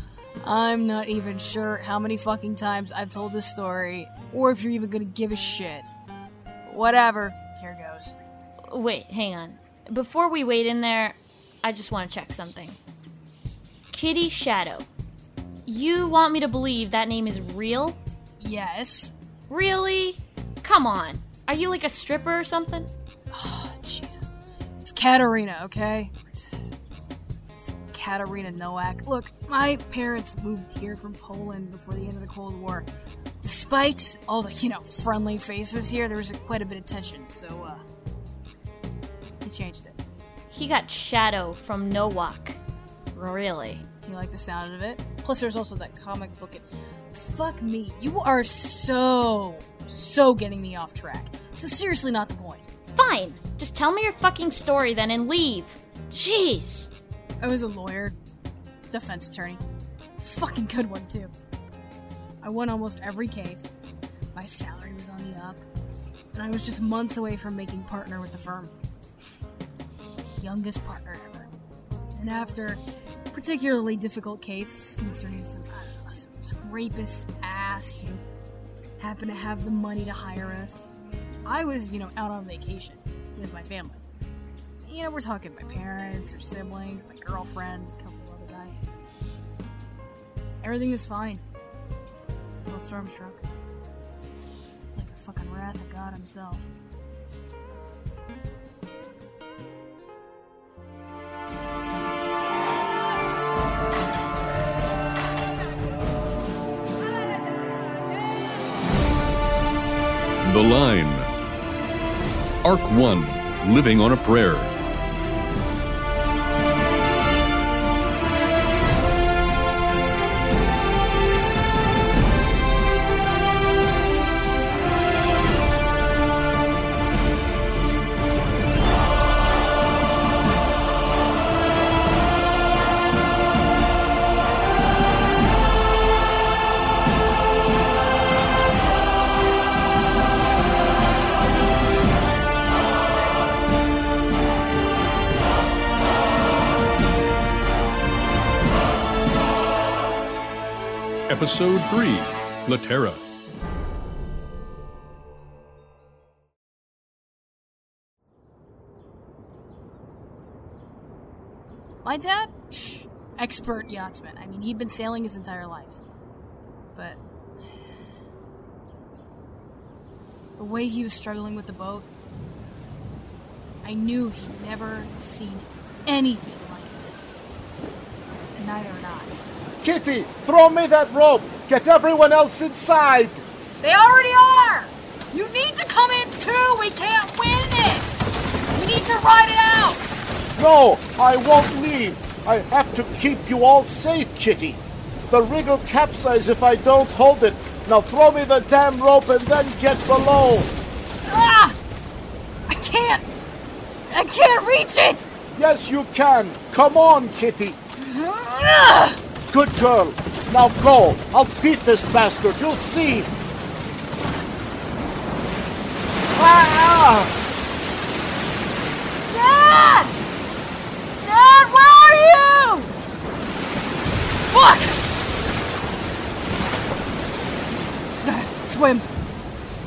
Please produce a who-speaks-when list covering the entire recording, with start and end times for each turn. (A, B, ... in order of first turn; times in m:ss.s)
0:00.4-0:05.9 A
0:06.6-0:08.2 A
0:08.7-0:12.8 B
0:13.9-0:14.9 B
0:15.6-0:18.0 B
0:18.4-0:19.1 A
0:19.5-0:22.9 B
0:23.3-0:24.3 A
0:24.8-0:26.4 A
0:27.6-0:32.9 A
0:33.4-0:37.8 A
0:39.4-0:40.0 A
0:40.5-0:42.6 B
0:43.1-0:43.8 B
0:44.0-0:52.7 A
0:52.9-0:56.9 B
0:57.4-0:58.2 A
0:58.9-0:59.6 A
1:00.2-1:01.3 A
1:02.4-1:03.8 A
1:04.3-1:05.6 A
1:06.3-1:08.7 A
1:10.4-1:11.5 A
1:12.2-1:12.8 A
1:13.3-1:18.2 A
1:19.0-1:20.9 A
1:21.4-1:24.0 A
1:24.8-1:28.8 A
1:30.6-1:31.4 A
1:32.6-1:33.4 A
1:34.9-1:36.6 A
1:50.4-1:51.3 C
1:52.6-1:54.7 C
2:31.3-2:33.2 C
2:42.0-2:46.0 A
2:46.9-2:47.2 A
2:50.6-2:52.1 A
2:53.8-2:57.3 A
2:58.5-2:59.3 A
2:59.8-3:03.4 D
3:03.8-3:10.1 A
3:10.6-3:20.7 D
3:21.2-3:21.8 A
3:22.7-3:23.3 A
3:24.1-3:25.3 A
3:25.5-3:27.8 D
3:28.0-3:29.2 A
3:29.5-3:33.3 D
3:36.3-3:37.3 D
3:39.3-3:40.1 A
3:41.2-3:42.9 A
3:44.4-3:45.0 A
3:48.2-3:49.0 A